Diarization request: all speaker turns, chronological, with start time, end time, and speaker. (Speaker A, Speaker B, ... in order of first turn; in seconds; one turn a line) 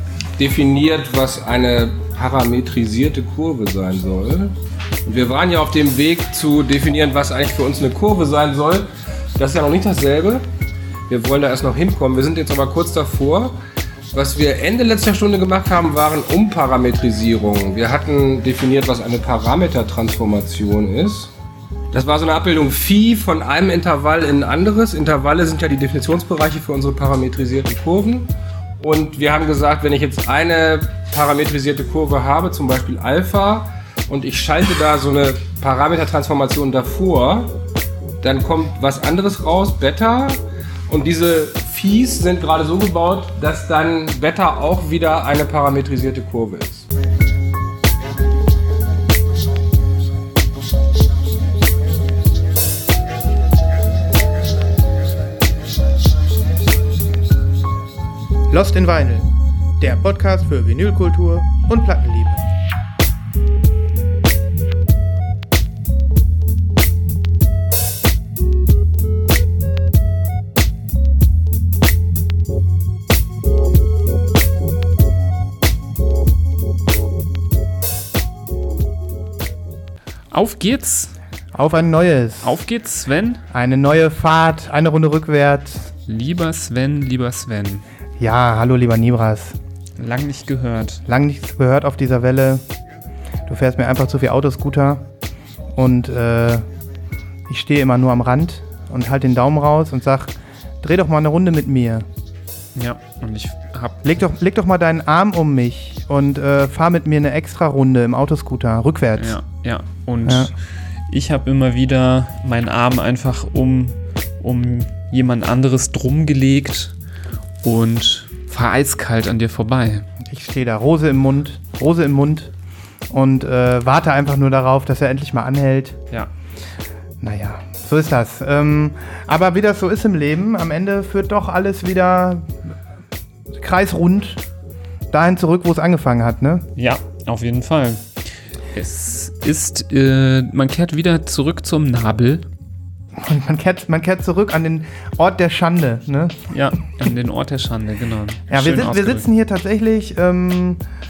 Speaker A: 0.4-4.5
Speaker A: 5.0-10.4
Speaker A: 11.1-13.6
Speaker A: 14.1-21.3
Speaker A: 21.9-28.3
Speaker A: 28.8-37.5
Speaker A: 38.2-46.8
Speaker B: 58.5-62.4
Speaker C: 80.3-81.1
Speaker B: 81.5-82.6
Speaker C: 82.4-83.4
Speaker B: 83.5-85.9
Speaker C: 86.1-87.8
Speaker B: 88.2-89.6
Speaker C: 90.0-91.0
Speaker B: 91.1-92.6
Speaker B: 93.5-95.1
Speaker B: 95.8-96.7
Speaker B: 97.5-102.0
Speaker C: 102.7-104.0
Speaker B: 104.0-109.4
Speaker C: 109.2-110.6
Speaker B: 110.2-110.5
Speaker C: 111.1-116.9
Speaker C: 117.6-120.0
Speaker B: 120.2-122.5
Speaker B: 123.1-126.0
Speaker B: 127.2-132.6
Speaker B: 133.6-134.4
Speaker B: 135.1-136.7
Speaker C: 136.8-138.1
Speaker C: 138.7-142.4
Speaker B: 143.1-146.5
Speaker C: 146.5-149.2
Speaker B: 148.5-150.8